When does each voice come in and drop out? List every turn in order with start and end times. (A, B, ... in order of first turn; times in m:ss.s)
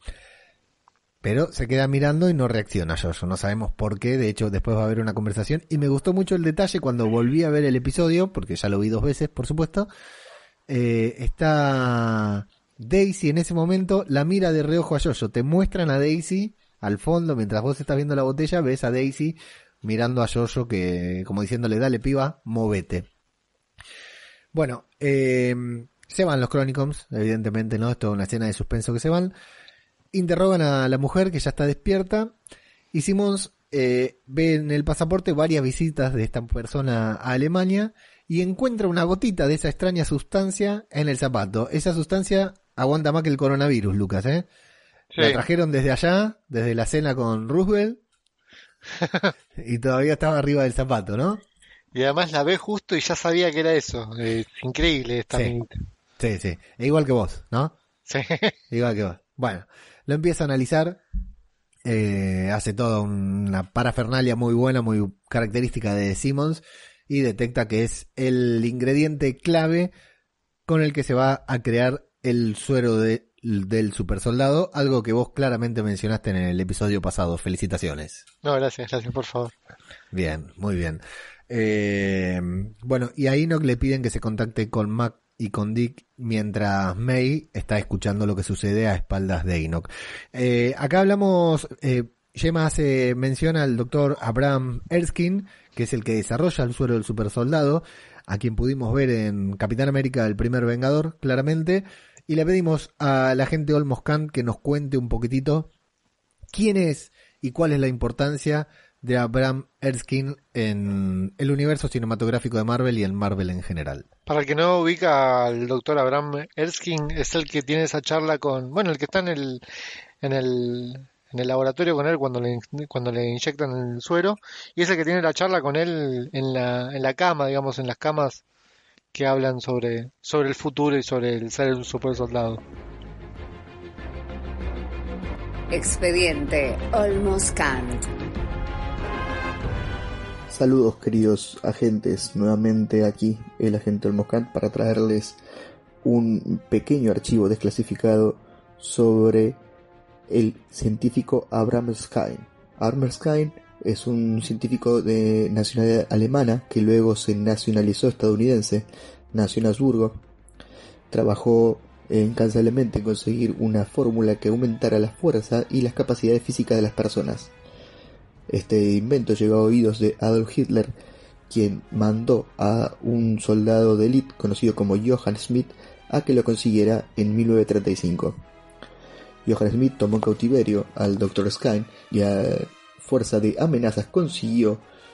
0:01.2-0:09.9 A
0:10.7-0:23.1 A
0:24.5-0:29.3 A
0:30.1-0:32.3 A
0:32.9-0:44.5 A
0:45.1-0:45.4 B
0:45.2-0:48.0 A
0:48.9-0:49.3 B
0:49.6-0:51.4 A
0:51.9-0:55.7 B
0:56.2-0:57.8 A
0:58.1-0:58.6 B
0:58.7-1:01.0 A
1:01.8-1:09.9 A
1:10.7-1:18.2 A
1:18.4-1:19.5 B
1:20.1-1:45.7 A
1:46.5-1:54.1 A
1:54.3-1:59.6 B
2:00.2-2:08.4 B
2:09.1-2:12.6 B
2:15.7-2:18.1 C
2:20.5-2:25.4 D
2:26.0-2:29.6 D
2:30.3-2:40.2 D
2:41.1-2:47.5 D
2:48.5-2:51.0 D
2:51.5-2:58.4 D
2:59.4-3:04.8 D